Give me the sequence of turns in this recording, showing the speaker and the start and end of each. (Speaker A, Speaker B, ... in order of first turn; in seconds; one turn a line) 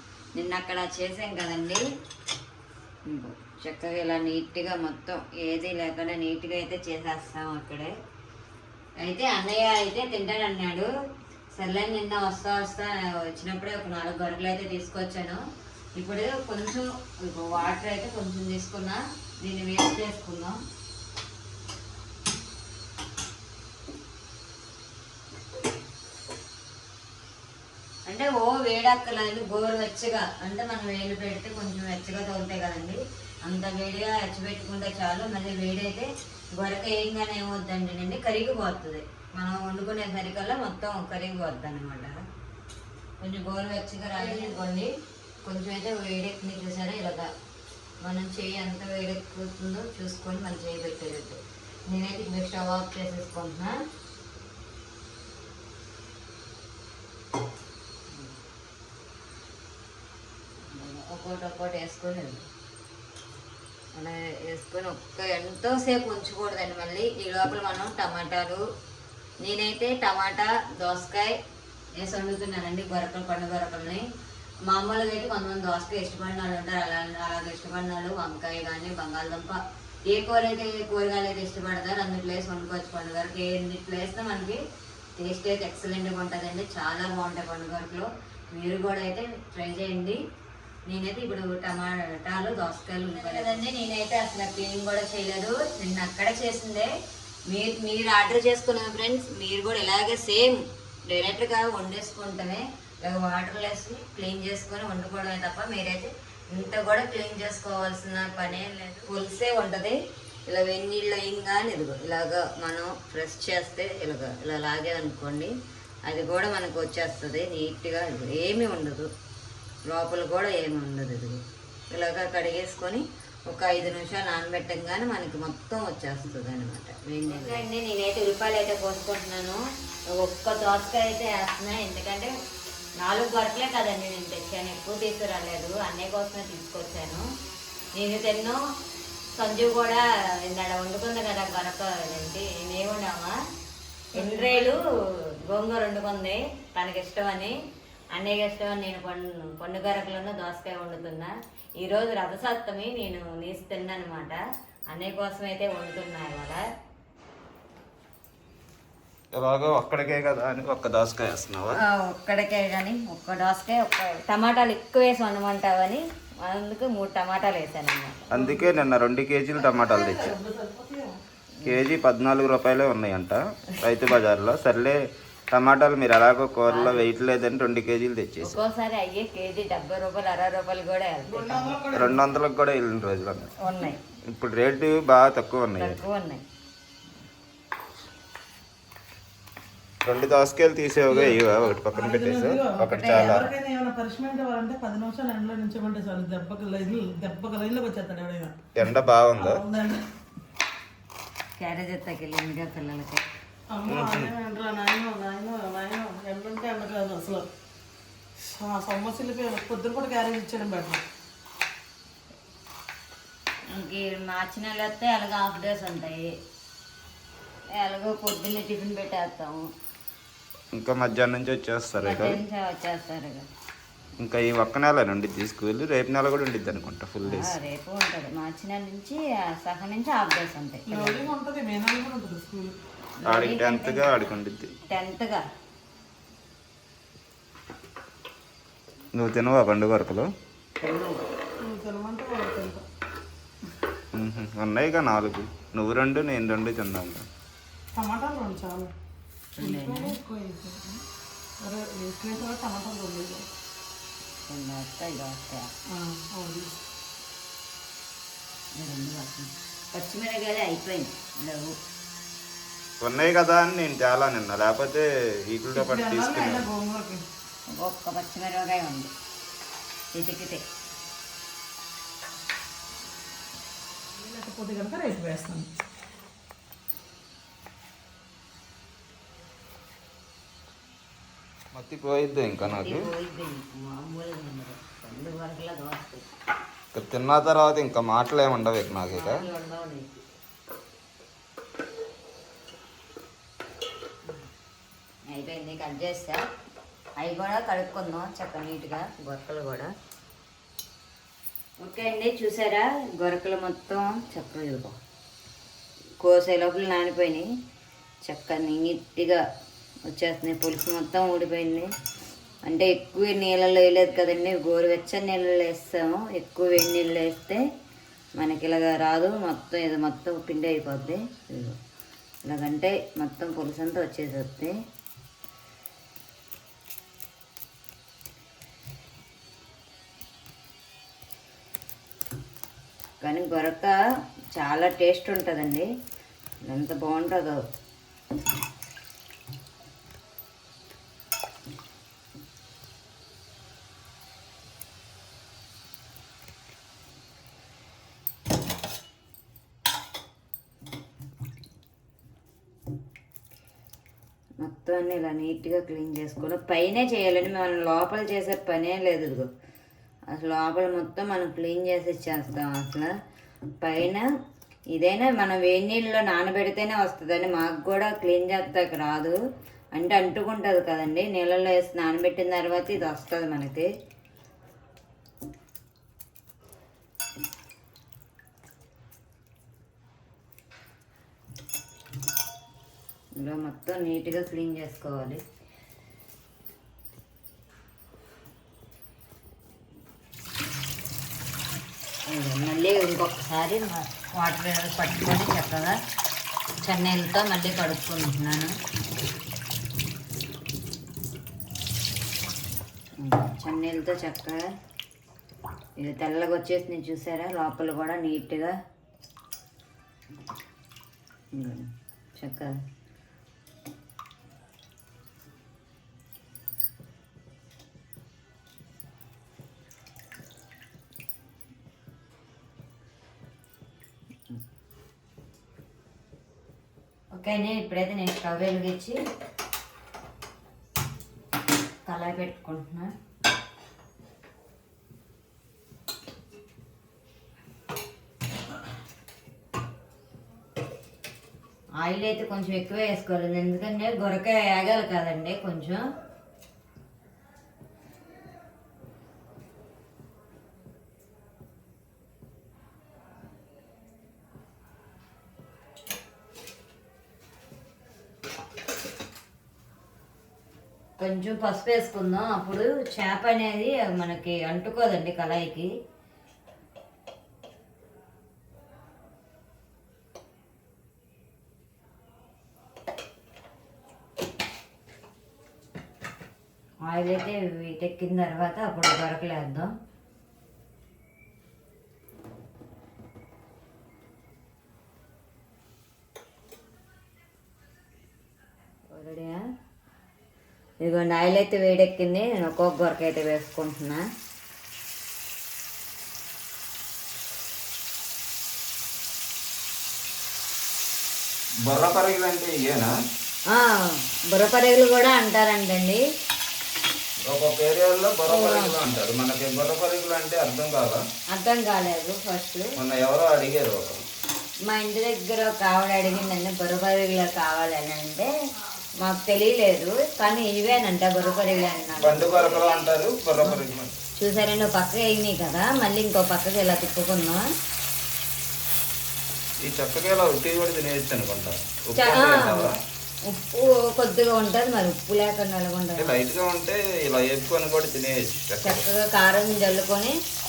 Speaker A: 0.3-1.8
Speaker A: 3.0-7.9
Speaker A: 9.0-10.9
Speaker A: 11.5-15.4
Speaker A: 15.9-20.6
Speaker A: 28.1-42.2
Speaker A: 43.2-44.9
Speaker A: 45.4-47.3
Speaker A: 48.0-53.8
Speaker A: 60.7-62.5
Speaker A: 63.9-68.6
Speaker A: 69.4-71.4
Speaker A: 72.0-74.1
Speaker A: 74.7-84.6
Speaker A: 85.2-90.2
Speaker A: 90.9-96.9
Speaker A: 97.5-115.5
Speaker A: 116.1-119.1
Speaker A: 119.9-132.3
Speaker A: 133.0-137.3
Speaker A: 137.9-138.6
Speaker A: 139.3-143.4
Speaker A: 144.1-144.8
Speaker B: 144.2-144.8
Speaker A: 145.4-147.6
Speaker A: 148.1-154.4
Speaker A: 154.9-156.6
Speaker C: 159.3-161.8
Speaker A: 161.8-168.2
Speaker B: 168.3-168.8
Speaker C: 168.3-170.3
Speaker B: 169.6-171.2
Speaker C: 171.6-178.6
Speaker A: 176.7-177.0
Speaker A: 178.4-181.8
Speaker B: 181.3-182.2
Speaker C: 181.9-183.5
Speaker A: 183.6-184.0
Speaker C: 184.3-186.0
Speaker A: 185.8-186.4
Speaker C: 190.0-193.5
Speaker B: 191.1-198.7
Speaker A: 192.8-193.4
Speaker C: 198.7-199.6
Speaker B: 199.3-200.0
Speaker A: 201.6-203.2
Speaker B: 203.7-207.5
Speaker C: 203.9-204.3
Speaker B: 208.4-211.0
Speaker A: 213.7-216.3
Speaker A: 217.7-219.7
Speaker C: 220.7-222.4
Speaker A: 222.0-223.5
Speaker C: 224.2-227.6
Speaker A: 227.2-231.3
Speaker B: 230.9-232.8
Speaker A: 233.2-234.3
Speaker C: 233.2-234.7
Speaker A: 234.8-235.5
Speaker C: 239.1-240.3
Speaker A: 240.8-241.3
Speaker B: 241.6-242.8
Speaker C: 244.1-247.3
Speaker B: 247.9-248.9
Speaker A: 249.6-250.2
Speaker B: 249.6-251.0
Speaker B: 251.6-253.5
Speaker A: 254.5-255.7
Speaker B: 255.9-256.8
Speaker A: 258.7-261.8
Speaker C: 263.0-266.7
Speaker B: 265.7-267.2
Speaker A: 267.7-269.1
Speaker A: 270.1-270.6
Speaker B: 274.1-275.7
Speaker C: 281.7-283.1
Speaker A: 282.7-286.3
Speaker C: 286.9-289.4
Speaker A: 289.1-290.2
Speaker A: 295.3-296.4
Speaker A: 297.2-299.9
Speaker A: 301.8-305.0
Speaker A: 306.2-307.5
Speaker A: 308.2-309.4
Speaker A: 310.1-311.9
Speaker A: 312.6-317.6
Speaker A: 318.4-321.8
Speaker A: 322.4-324.8
Speaker A: 333.2-334.0
Speaker A: 334.5-335.9
Speaker A: 336.6-337.6
Speaker A: 354.6-359.5
Speaker A: 360.3-363.1
Speaker A: 363.8-364.2
Speaker A: 364.9-369.4
Speaker A: 369.9-373.9
Speaker A: 383.3-385.4
Speaker A: 392.3-396.0
Speaker A: 396.8-398.7
Speaker A: 403.2-404.6
Speaker A: 406.0-408.8
Speaker A: 411.5-412.8
Speaker A: 427.3-429.2
Speaker A: 432.1-433.1
Speaker A: 442.0-446.0
Speaker A: 461.2-465.9
Speaker A: 477.0-479.9
Speaker A: 489.1-489.6
Speaker A: 491.0-494.2
Speaker C: 501.8-503.1
Speaker A: 503.7-506.2
Speaker C: 507.5-511.3
Speaker A: 508.5-509.0
Speaker A: 511.5-512.9
Speaker C: 513.0-514.2
Speaker A: 514.8-518.5
Speaker A: 519.2-522.9
Speaker C: 522.2-524.2
Speaker A: 524.4-527.7
Speaker C: 529.8-532.9
Speaker A: 532.1-532.9
Speaker A: 533.5-536.3
Speaker C: 536.2-539.1
Speaker A: 538.8-540.4